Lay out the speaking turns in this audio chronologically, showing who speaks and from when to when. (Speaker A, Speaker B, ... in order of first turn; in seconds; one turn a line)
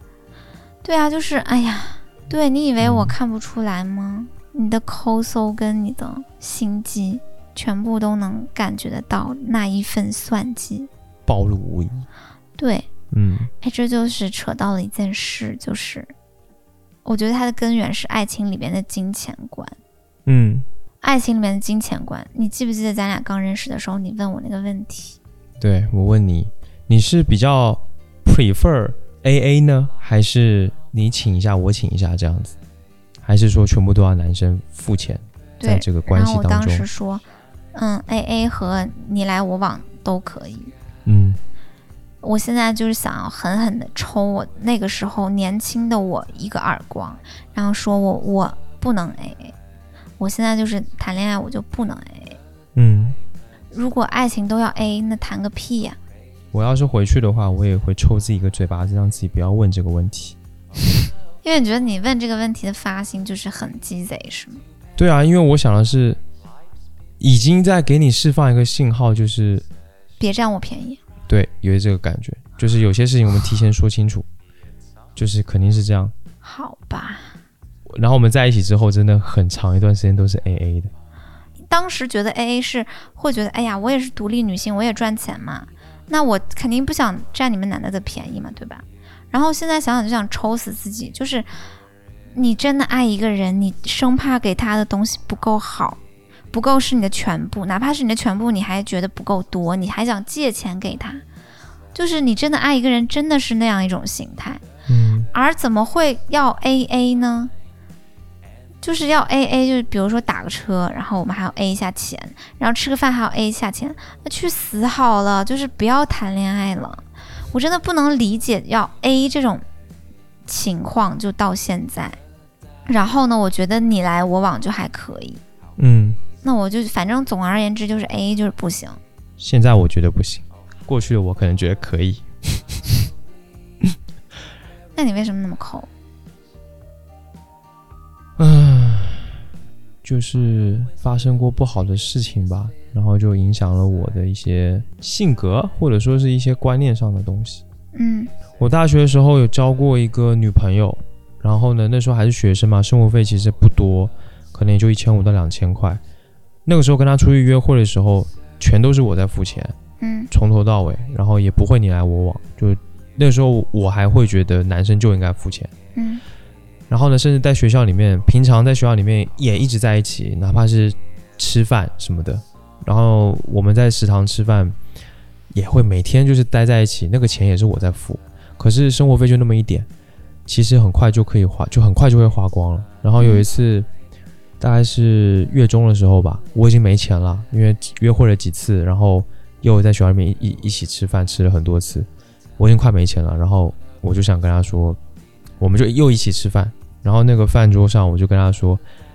Speaker A: 0.8-10.9
Speaker B: 2.8-3.1
Speaker B: 11.3-12.1
Speaker A: 12.6-12.9
Speaker B: 13.1-13.5
Speaker A: 13.6-16.1
Speaker A: 17.0-19.8
Speaker B: 20.2-20.6
Speaker A: 21.0-25.2
Speaker B: 25.6-32.5
Speaker B: 33.2-36.9
Speaker A: 35.6-40.7
Speaker B: 41.0-41.4
Speaker A: 42.2-49.5
Speaker A: 50.2-52.4
Speaker B: 52.7-53.2
Speaker A: 53.7-56.0
Speaker B: 56.5-60.4
Speaker A: 61.4-64.6
Speaker B: 65.0-66.2
Speaker B: 67.2-69.7
Speaker A: 70.2-71.0
Speaker B: 71.3-74.3
Speaker B: 75.2-76.1
Speaker A: 76.4-77.4
Speaker B: 77.9-80.9
Speaker A: 81.7-91.5
Speaker A: 92.3-96.0
Speaker A: 96.5-101.2
Speaker A: 101.9-104.6
Speaker B: 104.9-105.3
Speaker A: 105.3-107.5
Speaker A: 108.8-119.6
Speaker A: 120.5-122.2
Speaker A: 122.9-125.4
Speaker B: 125.8-126.2
Speaker A: 126.4-129.0
Speaker B: 129.4-133.0
Speaker A: 134.9-135.9
Speaker B: 138.4-139.4
Speaker B: 140.0-147.6
Speaker A: 147.9-148.3
Speaker B: 148.6-156.0
Speaker B: 156.7-159.7
Speaker A: 160.0-160.3
Speaker B: 160.3-165.7
Speaker A: 165.9-166.2
Speaker B: 166.9-174.8
Speaker B: 175.5-179.9
Speaker B: 180.4-183.9
Speaker A: 183.2-183.5
Speaker B: 184.6-195.0
Speaker B: 195.6-198.8